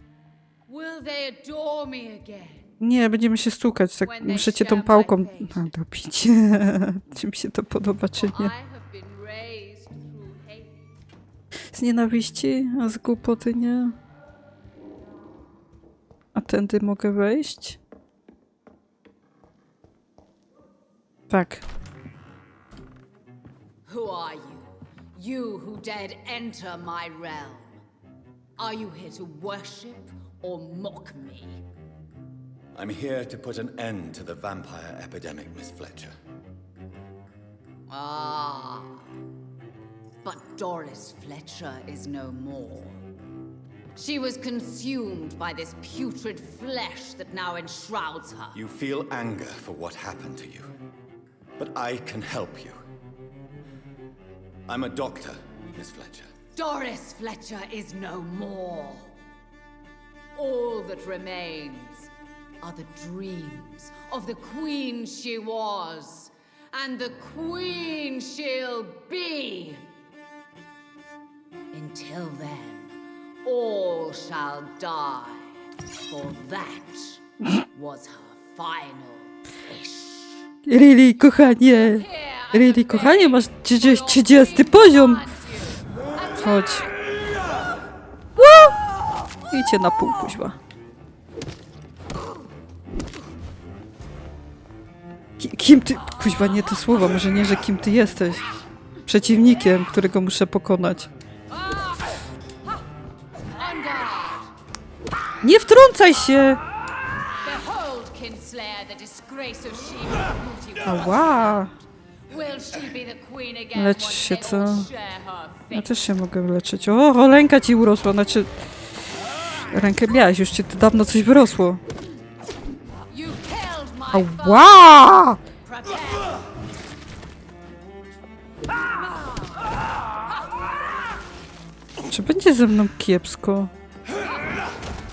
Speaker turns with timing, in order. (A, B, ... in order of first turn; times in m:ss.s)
0:00.7-0:02.7 A
0:02.8-0:08.5 B
0:04.0-0:05.7 A
0:08.2-0:10.8 A
0:11.7-0:14.0 B
0:16.4-0:17.8 B
0:21.3-0:21.6 B
0:23.9-0:27.8 A
0:28.6-0:31.6 A
0:32.8-0:36.2 C
0:37.9-0:39.0 A
0:40.2-0:43.0 A
0:44.0-0:48.6 A
0:48.5-0:50.7 C
0:51.6-0:52.8 C
0:54.7-0:56.3 C
0:56.6-0:59.1 A
1:00.4-1:02.1 A
1:02.6-1:09.8 A
1:11.7-1:12.9 A
1:13.4-1:15.5 A
1:16.1-1:20.4 A
1:20.7-1:25.3 B
1:21.7-1:26.9 A
1:26.4-1:26.9 B
1:28.4-1:28.8 B
1:29.5-1:30.6 B
1:35.4-1:38.5 B
1:39.1-1:41.1 B
1:41.5-1:42.1 A
1:43.5-1:44.5 A
1:45.4-1:46.6 B
1:47.4-1:51.6 A
1:50.8-1:51.7 B
1:52.3-1:55.9 A
1:53.7-1:54.9 B
1:55.7-1:58.5 B
1:59.7-2:01.8 B
2:03.1-2:04.9 A
2:04.1-2:05.4 B
2:05.6-2:06.4 A
2:12.1-2:13.7 B